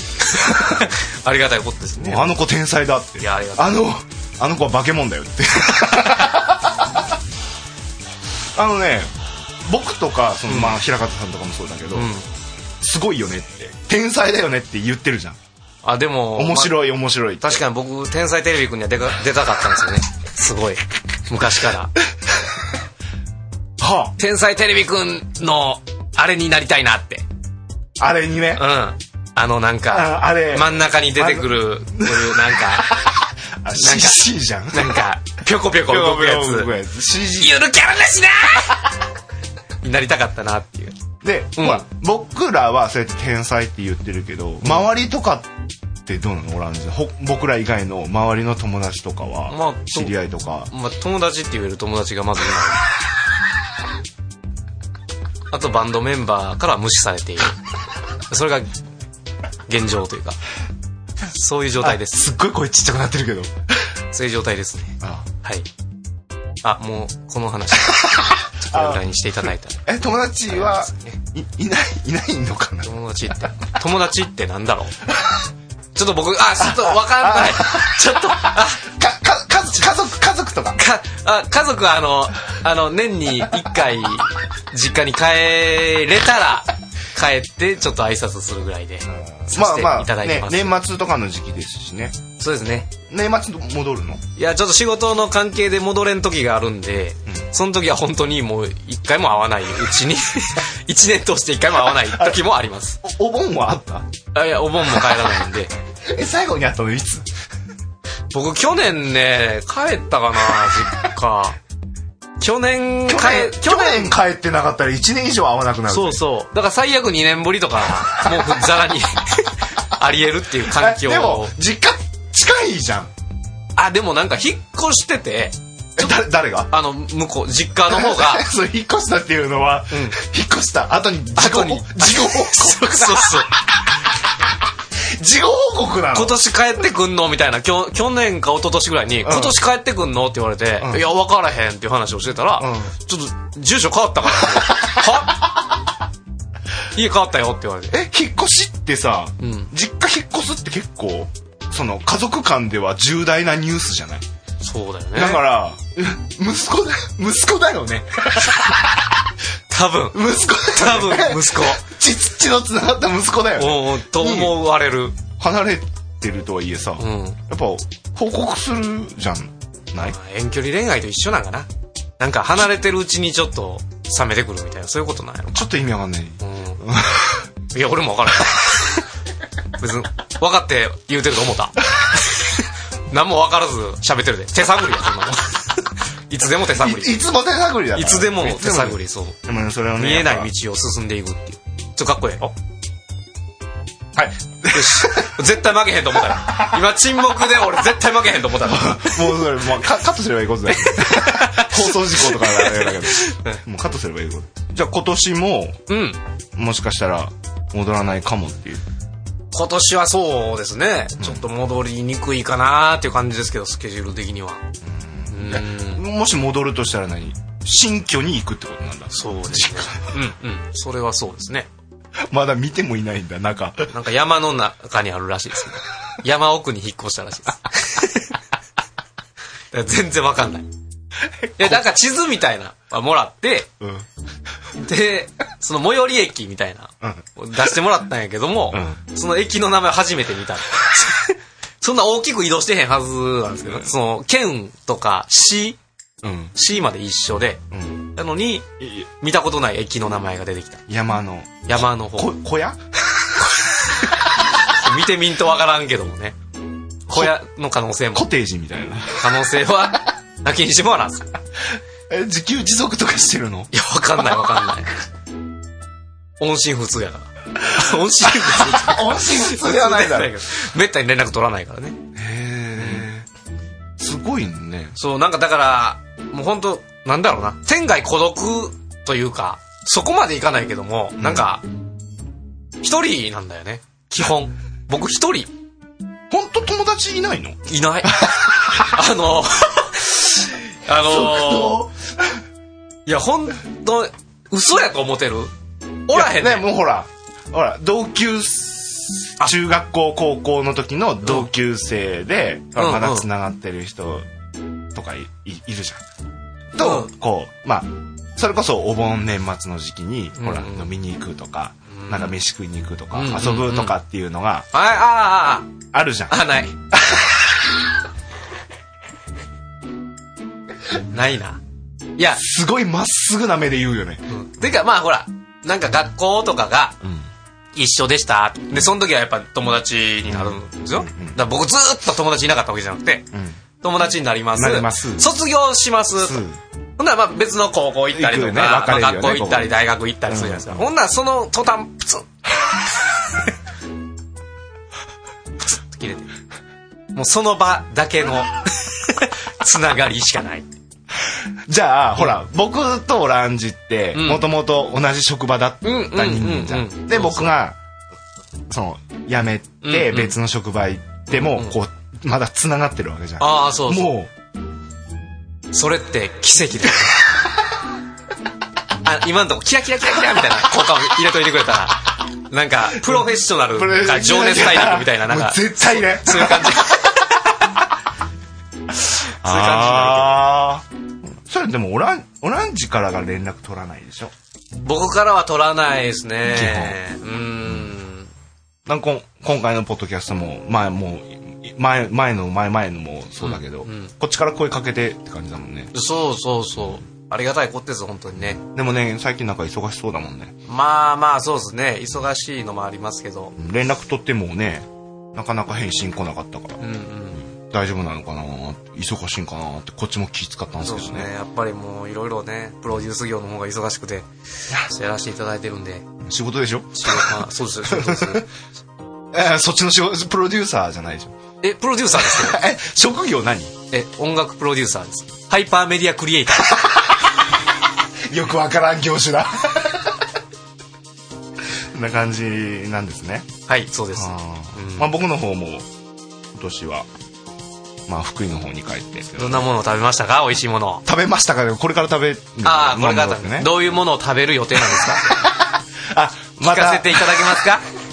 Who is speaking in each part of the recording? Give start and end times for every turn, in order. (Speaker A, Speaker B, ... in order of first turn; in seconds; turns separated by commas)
Speaker A: 0.4-2.4, Speaker B: 2.0-6.9, Speaker A: 3.2-3.9, Speaker B: 8.6-9.1, Speaker B: 9.6-12.1, Speaker A: 10.5-10.8, Speaker A: 11.9-12.3, Speaker B: 12.8-15.4, Speaker A: 15.8-16.8, Speaker B: 16.3-17.6, Speaker A: 17.4-21.9, Speaker B: 23.8-24.1, Speaker A: 24.2-27.2, Speaker B: 28.0-28.6, Speaker A: 28.5-33.0, Speaker B: 29.9-35.0, Speaker A: 33.7-36.7, Speaker B: 35.8-37.6, Speaker A: 37.4-38.9, Speaker A: 39.8-40.9, Speaker B: 41.2-45.5, Speaker A: 41.5-41.9, Speaker B: 46.0-50.7, Speaker A: 49.5-50.1, Speaker A: 50.7-52.8, Speaker A: 55.5-57.6, Speaker A: 58.3-58.7, Speaker A: 59.7-60.4, Speaker A: 61.3-62.2, Speaker B: 61.8-63.5, Speaker A: 64.1-65.7, Speaker B: 65.0-65.3, Speaker A: 66.6-69.8, Speaker B: 68.7-69.0, Speaker B: 69.8-73.3, Speaker A: 70.8-71.2, Speaker A: 72.8-74.9, Speaker A: 75.9-78.8, Speaker B: 76.7-77.9, Speaker B: 78.6-80.8, Speaker A: 80.8-90.8, Speaker B: 89.1-92.2, Speaker A: 92.4-92.9, Speaker B: 93.1-94.2, Speaker A: 94.3-103.0, Speaker B: 101.9-102.4, Speaker B: 103.0-104.1, Speaker A: 104.3-105.7, Speaker B: 106.0-107.3, Speaker A: 108.3-111.6, Speaker A: 112.4-114.2, Speaker B: 113.1-116.2, Speaker A: 115.9-121.5, Speaker B: 120.6-123.1, Speaker A: 123.8-126.2, Speaker B: 126.0-126.7, Speaker A: 126.7-128.5, Speaker B: 127.8-133.5, Speaker A: 129.9-130.2, Speaker A: 131.3-133.5, Speaker B: 135.0-136.4, Speaker A: 136.1-145.4, Speaker B: 139.2-139.6, Speaker B: 140.8-141.1, Speaker B: 142.6-142.9, Speaker A: 146.9-147.9, Speaker B: 147.9-154.2, Speaker A: 149.4-149.7, Speaker A: 154.6-155.4, Speaker B: 155.1-159.1, Speaker A: 159.7-161.8, Speaker B: 160.1-164.6, Speaker A: 163.6-165.2, Speaker B: 165.4-170.2, Speaker A: 167.0-167.4, Speaker A: 170.0-175.7, Speaker B: 175.5-177.5, Speaker A: 176.4-176.8, Speaker A: 177.7-179.0, Speaker A: 179.8-187.1, Speaker B: 186.7-190.5, Speaker A: 187.9-189.4, Speaker A: 189.9-192.5, Speaker B: 194.1-195.4, Speaker A: 194.7-199.2, Speaker B: 198.6-205.8, Speaker A: 200.8-203.6, Speaker A: 205.9-206.2, Speaker B: 206.6-208.8, Speaker A: 209.5-214.6, Speaker B: 214.8-220.2, Speaker A: 215.3-216.0, Speaker A: 219.1-221.7, Speaker B: 222.3-223.9, Speaker A: 223.9-228.3, Speaker A: 229.7-230.7, Speaker B: 231.4-231.8, Speaker A: 231.6-233.7, Speaker B: 233.8-234.1, Speaker A: 234.8-245.8, Speaker B: 237.0-237.7, Speaker B: 238.7-239.0, Speaker B: 243.7-243.9, Speaker B: 246.2-246.5, Speaker A: 246.5-247.6, Speaker B: 247.7-248.0, Speaker A: 248.1-248.7, Speaker A: 249.2-250.8, Speaker B: 250.9-253.3, Speaker A: 251.7-252.4, Speaker A: 254.6-256.4, Speaker A: 257.1-258.3, Speaker B: 258.1-259.4, Speaker A: 259.1-261.3, Speaker B: 262.1-263.7, Speaker A: 263.7-264.9, Speaker A: 266.4-272.0, Speaker B: 268.4-270.4, Speaker B: 272.1-273.3, Speaker A: 272.8-273.1, Speaker B: 274.0-274.9, Speaker A: 274.9-281.6, Speaker B: 281.2-281.5, Speaker A: 282.8-285.5, Speaker B: 286.3-289.0, Speaker A: 287.7-291.9, Speaker B: 290.9-292.4, Speaker A: 293.1-295.5, Speaker A: 296.1-296.7, Speaker B: 296.1-304.2, Speaker A: 302.8-303.3, Speaker B: 304.9-306.0, Speaker B: 306.7-314.7, Speaker A: 306.8-307.1, Speaker A: 310.4-310.9, Speaker A: 311.9-312.4, Speaker A: 313.1-313.9, Speaker A: 314.7-315.7, Speaker B: 315.9-317.4, Speaker A: 316.3-316.7, Speaker A: 321.1-321.6, Speaker A: 322.2-322.4, Speaker B: 322.4-324.2, Speaker A: 324.3-327.0, Speaker B: 327.0-327.3, Speaker A: 327.7-333.3, Speaker B: 330.3-331.4, Speaker B: 333.3-333.6, Speaker A: 333.8-336.4, Speaker B: 334.5-335.3, Speaker B: 336.1-336.6, Speaker A: 337.0-342.3, Speaker B: 338.1-339.7, Speaker B: 340.3-340.8, Speaker A: 345.6-346.3, Speaker A: 347.1-350.7, Speaker B: 351.3-357.8, Speaker A: 354.1-354.4, Speaker A: 355.8-357.6, Speaker B: 358.7-364.3, Speaker A: 359.8-360.4, Speaker A: 361.4-361.7, Speaker A: 363.4-364.1, Speaker A: 365.7-367.2, Speaker A: 369.0-377.4, Speaker B: 373.0-377.1, Speaker B: 379.4-384.3, Speaker A: 379.4-380.5, Speaker A: 384.8-388.3, Speaker B: 386.4-387.0, Speaker B: 388.9-395.9, Speaker A: 393.4-394.1, Speaker A: 395.9-398.6, Speaker B: 398.6-400.5, Speaker A: 400.6-403.5, Speaker B: 403.6-406.8, Speaker A: 406.8-407.4, Speaker B: 407.4-411.3, Speaker A: 410.8-416.1, Speaker B: 416.2-418.5, Speaker A: 417.0-418.5, Speaker B: 419.3-421.4, Speaker A: 421.6-422.6, Speaker B: 422.1-423.7, Speaker A: 423.9-427.0, Speaker B: 428.3-430.2, Speaker B: 431.9-433.5, Speaker A: 433.7-435.1, Speaker B: 434.1-435.9, Speaker B: 436.5-437.1, Speaker B: 438.1-439.7, Speaker A: 439.4-441.0, Speaker B: 441.1-443.8, Speaker A: 442.6-445.4, Speaker B: 444.9-445.6, Speaker B: 446.1-447.5, Speaker A: 446.6-447.8